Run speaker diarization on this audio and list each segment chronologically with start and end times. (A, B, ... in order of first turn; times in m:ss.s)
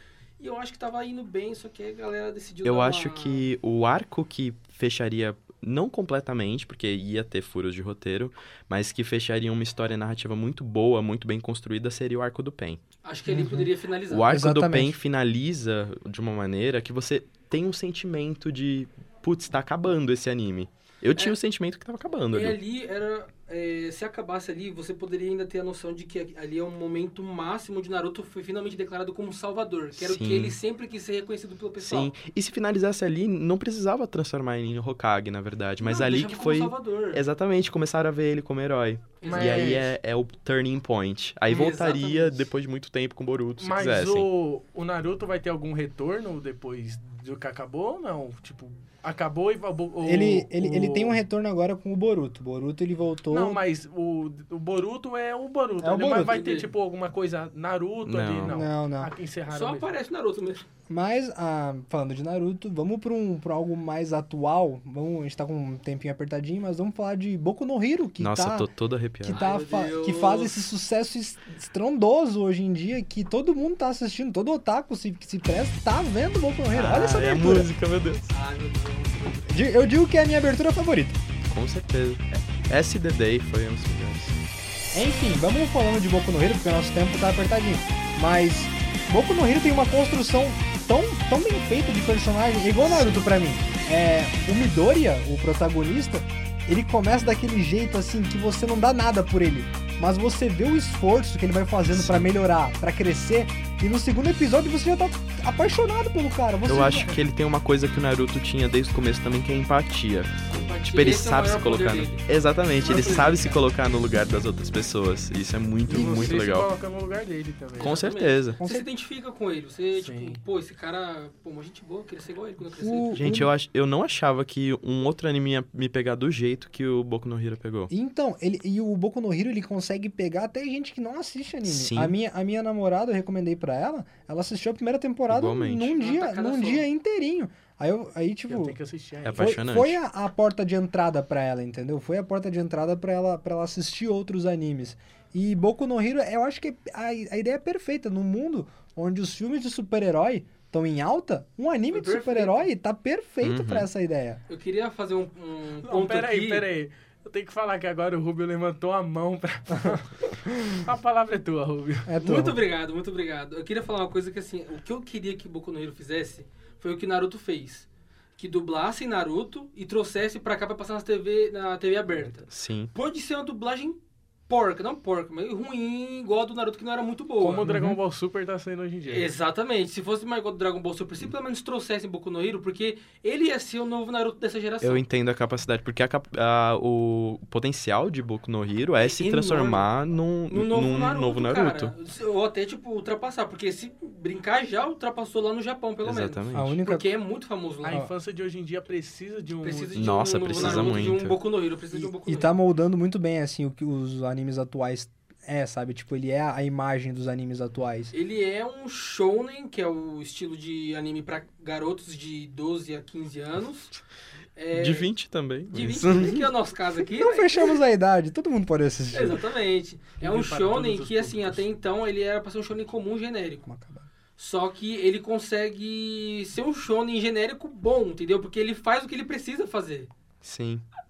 0:00.4-0:03.4 A
0:02.6-0:12.8 B
0:13.0-0:14.4 A
0:13.3-0:13.7 C
0:14.1-0:22.6 B
0:14.3-0:15.0 C
0:22.3-0:32.1 A
0:30.0-0:30.6 B
0:31.8-0:44.3 B
0:35.8-0:37.2 A
0:39.2-0:39.8 A
0:39.3-0:39.9 D
0:41.5-0:42.5 A
0:43.6-0:51.2 D
0:50.0-0:53.6 C
0:53.3-1:00.0 D
0:55.8-0:56.4 C
0:56.2-0:56.7 A
0:58.0-0:58.6 B
0:58.5-0:59.1 C
0:59.5-1:00.6 A
1:00.9-1:08.7 C
1:08.2-1:09.4 B
1:09.2-1:17.7 C
1:09.3-1:10.7 A
1:16.7-1:18.3 B
1:18.3-1:19.5 A
1:19.5-1:21.2 C
1:21.5-1:24.4 B
1:24.9-1:47.2 C
1:33.0-1:33.2 B
1:41.9-1:42.3 B
1:46.7-1:56.7 B
1:50.5-1:53.6 A
1:55.9-1:58.0 D
1:55.9-1:56.4 C
1:57.8-2:03.2 A
1:57.8-1:58.6 B
1:58.6-1:58.9 C
2:00.0-2:00.4 D
2:02.8-2:03.5 C
2:03.2-2:07.9 B
2:07.9-2:18.8 C
2:11.6-2:12.2 B
2:15.3-2:15.9 B
2:15.9-2:16.9 A
2:18.5-2:19.5 D
2:19.2-2:20.0 B
2:19.4-2:34.4 C
2:31.9-2:32.7 A
2:33.4-2:33.9 B
2:34.5-2:36.7 A
2:35.8-2:42.1 D
2:42.1-2:42.6 C
2:42.2-2:47.9 A
2:48.4-2:57.6 A
2:52.5-2:52.9 B
2:57.4-2:59.3 D
2:57.7-2:58.0 C
2:59.1-3:05.0 A
3:04.8-3:11.9 B
3:09.0-3:09.9 A
3:10.5-3:18.1 A
3:16.0-3:16.8 B
3:16.5-3:17.1 C
3:17.8-3:20.0 D
3:19.6-3:22.5 A
3:19.9-3:21.4 B
3:20.5-3:21.1 D
3:21.9-3:28.1 C
3:28.1-3:34.0 A
3:34.6-3:35.1 A
3:34.7-3:36.5 B
3:35.7-3:37.8 A
3:36.2-3:39.4 C
3:39.1-3:43.7 A
3:40.2-3:41.6 D
3:43.7-3:44.1 C
3:44.4-3:50.1 A
3:50.4-3:50.8 B